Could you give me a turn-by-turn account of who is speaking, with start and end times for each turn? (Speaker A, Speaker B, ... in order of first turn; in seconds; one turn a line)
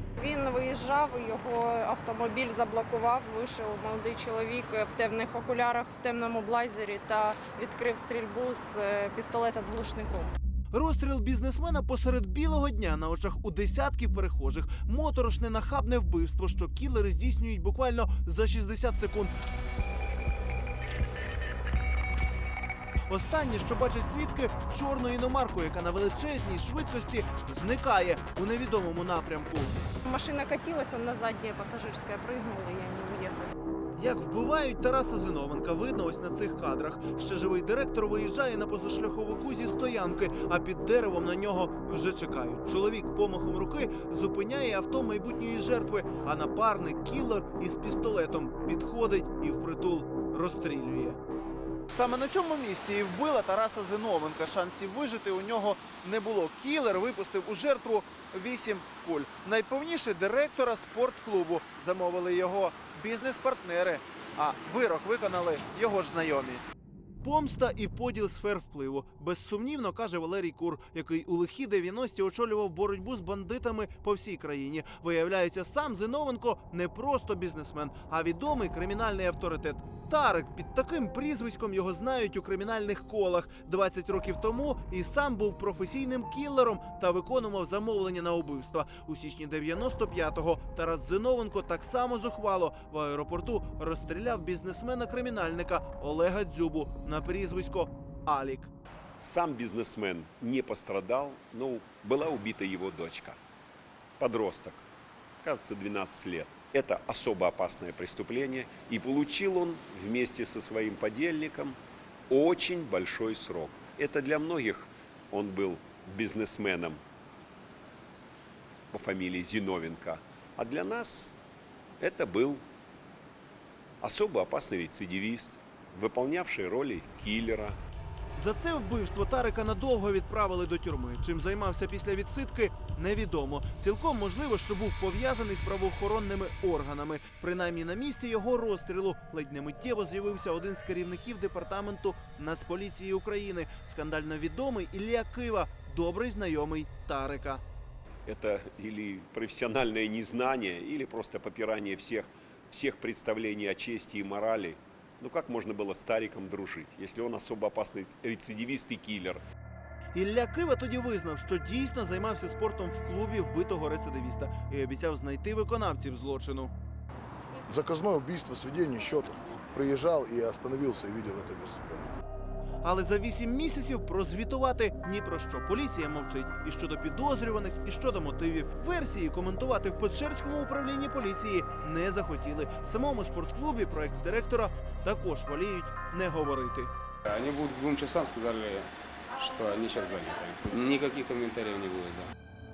Speaker A: 0.2-10.3
Speaker B: 10.7-19.3
Speaker B: 23.1-29.7
Speaker A: 30.0-33.5
Speaker B: 34.0-51.2
Speaker B: 51.9-66.6
Speaker B: 67.2-98.7
Speaker C: 99.2-103.4
Speaker C: 104.2-104.8
Speaker C: 105.4-111.8
Speaker C: 112.3-117.0
Speaker C: 118.9-121.4
Speaker C: 122.0-122.6
Speaker C: 124.0-127.8
Speaker B: 128.4-147.6
Speaker C: 148.2-159.4
Speaker B: 160.1-166.7
Speaker D: 167.7-172.1
Speaker B: 172.8-186.9
Speaker E: 187.3-192.3